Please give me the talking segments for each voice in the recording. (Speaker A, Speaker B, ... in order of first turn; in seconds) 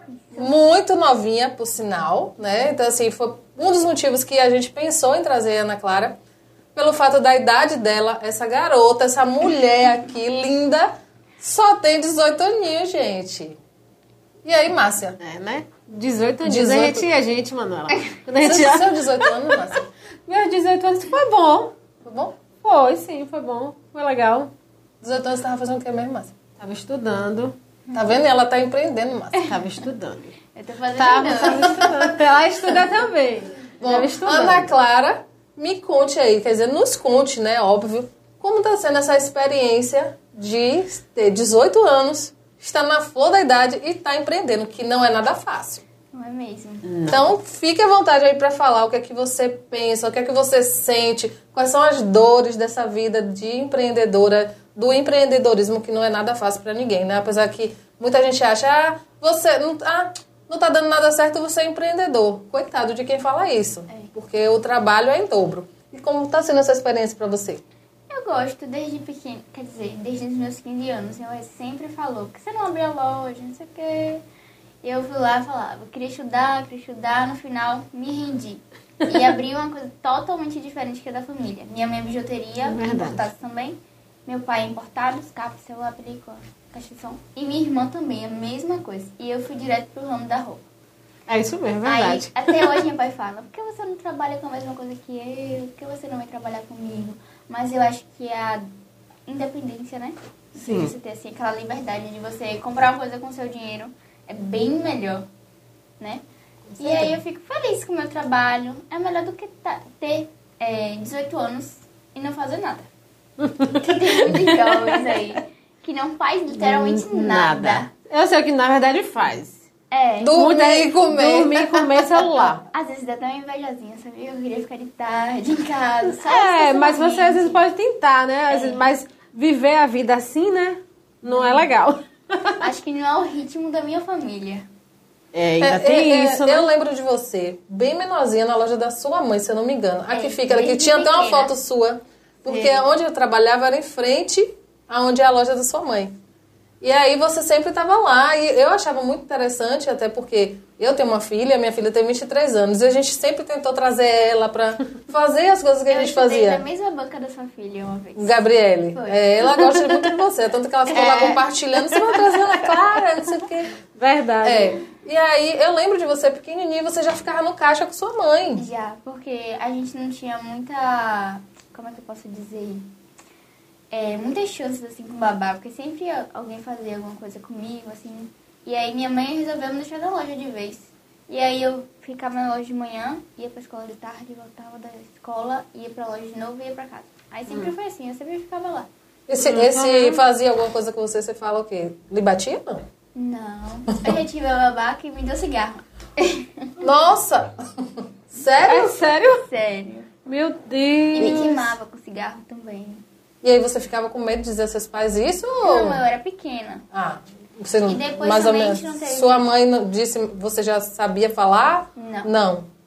Speaker A: 0.3-6.2, 6.8-13.6, 14.4-15.2, 16.4-17.0, 18.4-19.9, 22.0-22.4, 25.0-26.3, 27.9-29.5, 33.8-45.8, 47.1-67.6, 120.2-121.9, 135.6-146.1, 146.8-156.6, 158.2-163.8, 164.4-168.6, 189.3-192.9, 196.8-199.0, 203.4-206.0, 206.9-212.7
Speaker B: 15.2-19.6, 20.2-21.7, 22.6-24.5, 26.6-27.6, 29.4-30.4, 30.9-34.7, 46.9-47.2, 79.0-79.3, 82.6-83.2, 91.3-92.8, 100.6-100.9, 106.7-107.2, 113.4-115.4, 116.5-119.6, 120.3-122.6, 126.0-132.7, 135.3-136.7, 142.5-142.9, 160.9-162.2, 163.9-164.8, 189.4-190.2, 198.6-199.4, 200.2-201.8
Speaker C: 27.9-28.1, 30.5-31.9, 46.1-47.0, 68.1-74.2, 74.8-90.6, 91.8-98.7, 99.3-105.3, 106.8-112.9, 113.8-117.9, 119.9-120.5, 122.7-127.6, 128.5-128.8, 131.2-131.6, 132.6-134.7, 140.1-141.5, 155.9-158.4, 158.9-159.3, 168.6-172.9, 173.9-188.9, 193.1-196.9, 199.3-200.1, 201.1-203.0, 205.6-206.8, 207.8-209.4, 211.9-212.3